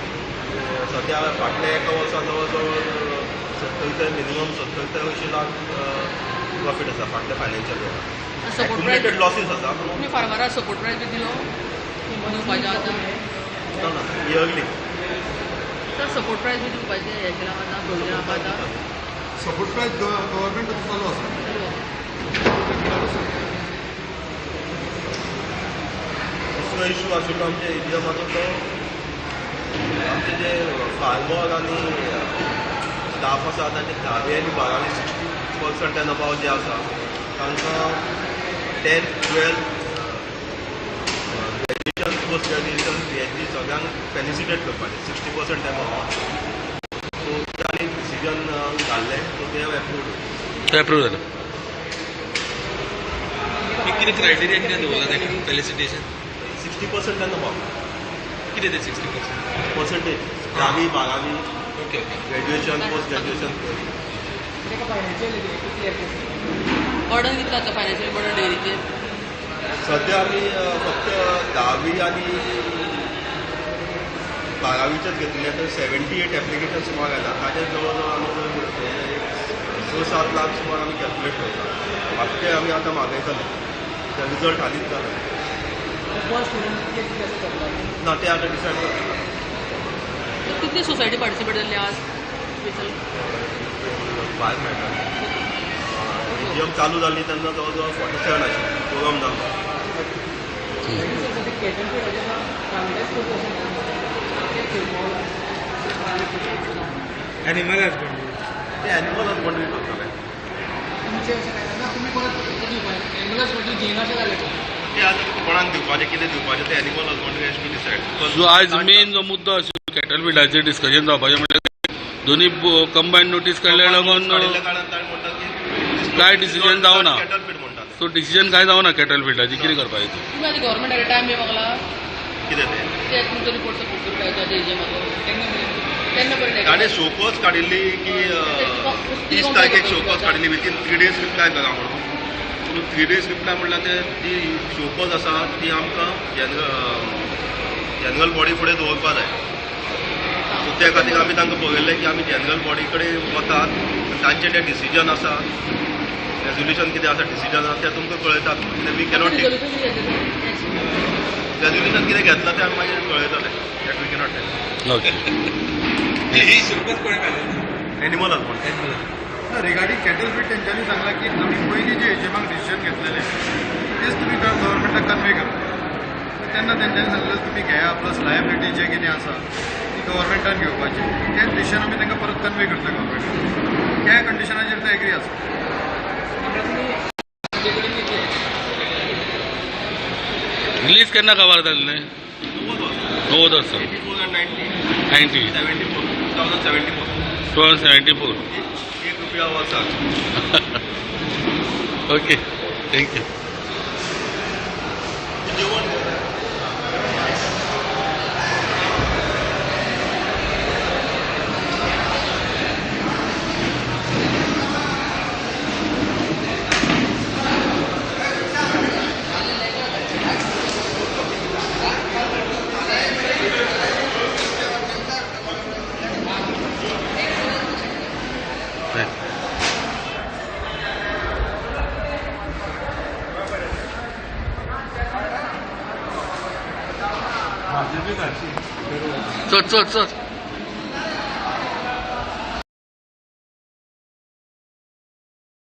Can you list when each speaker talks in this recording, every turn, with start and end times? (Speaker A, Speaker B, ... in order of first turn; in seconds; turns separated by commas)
Speaker A: 0.4-10.0, Speaker B: 8.4-9.2, Speaker B: 10.0-11.5, Speaker C: 12.1-13.2, Speaker B: 12.2-13.1, Speaker A: 13.7-14.7, Speaker B: 16.0-18.6, Speaker A: 17.9-18.9, Speaker D: 19.4-21.4, Speaker B: 21.4-21.8, Speaker D: 22.4-23.5, Speaker A: 26.5-28.6, Speaker A: 30.0-32.4, Speaker A: 33.1-38.1, Speaker A: 38.8-40.2, Speaker A: 41.3-46.2, Speaker A: 47.2-50.2, Speaker E: 50.7-51.2, Speaker C: 53.7-55.4, Speaker F: 53.8-56.1, Speaker A: 56.4-57.6, Speaker F: 58.5-59.4, Speaker A: 59.7-61.4, Speaker F: 60.5-60.8, Speaker F: 61.8-62.2, Speaker A: 62.3-63.9, Speaker B: 62.7-63.5, Speaker C: 64.6-66.5, Speaker B: 67.1-68.8, Speaker A: 69.8-73.0, Speaker A: 74.6-83.5, Speaker A: 84.1-85.3, Speaker C: 86.1-87.9, Speaker A: 88.0-89.2, Speaker B: 90.5-92.0, Speaker B: 92.6-93.0, Speaker A: 93.1-95.1, Speaker A: 95.8-99.4, Speaker B: 96.3-96.7, Speaker C: 101.0-107.2, Speaker F: 107.4-108.3, Speaker A: 108.8-110.1, Speaker C: 111.0-114.6, Speaker A: 114.8-119.1, Speaker E: 118.4-121.7, Speaker E: 122.2-124.5, Speaker A: 123.7-128.0, Speaker E: 126.2-127.2, Speaker E: 128.0-130.2, Speaker A: 129.5-129.8, Speaker B: 130.3-131.8, Speaker A: 132.5-132.9, Speaker B: 133.0-135.1, Speaker C: 135.2-135.8, Speaker B: 136.1-136.9, Speaker A: 136.6-142.1, Speaker B: 138.1-140.4, Speaker A: 142.6-147.4, Speaker A: 148.0-149.3, Speaker B: 150.5-151.4, Speaker A: 150.6-155.4, Speaker A: 156.4-159.5, Speaker B: 159.1-160.9, Speaker A: 161.6-164.5, Speaker E: 164.8-165.2, Speaker F: 166.3-167.7, Speaker A: 168.0-168.7, Speaker F: 168.6-169.0, Speaker D: 169.5-173.3, Speaker D: 174.0-175.6, Speaker D: 176.4-183.4, Speaker D: 184.0-185.4, Speaker C: 186.4-188.3, Speaker E: 190.8-192.1, Speaker A: 192.5-197.3, Speaker E: 193.3-193.8, Speaker E: 195.1-195.5, Speaker E: 197.5-198.4, Speaker A: 198.5-200.0, Speaker E: 200.3-200.8, Speaker E: 202.1-203.2, Speaker A: 205.4-206.3, Speaker F: 237.8-238.3, Speaker E: 239.5-240.1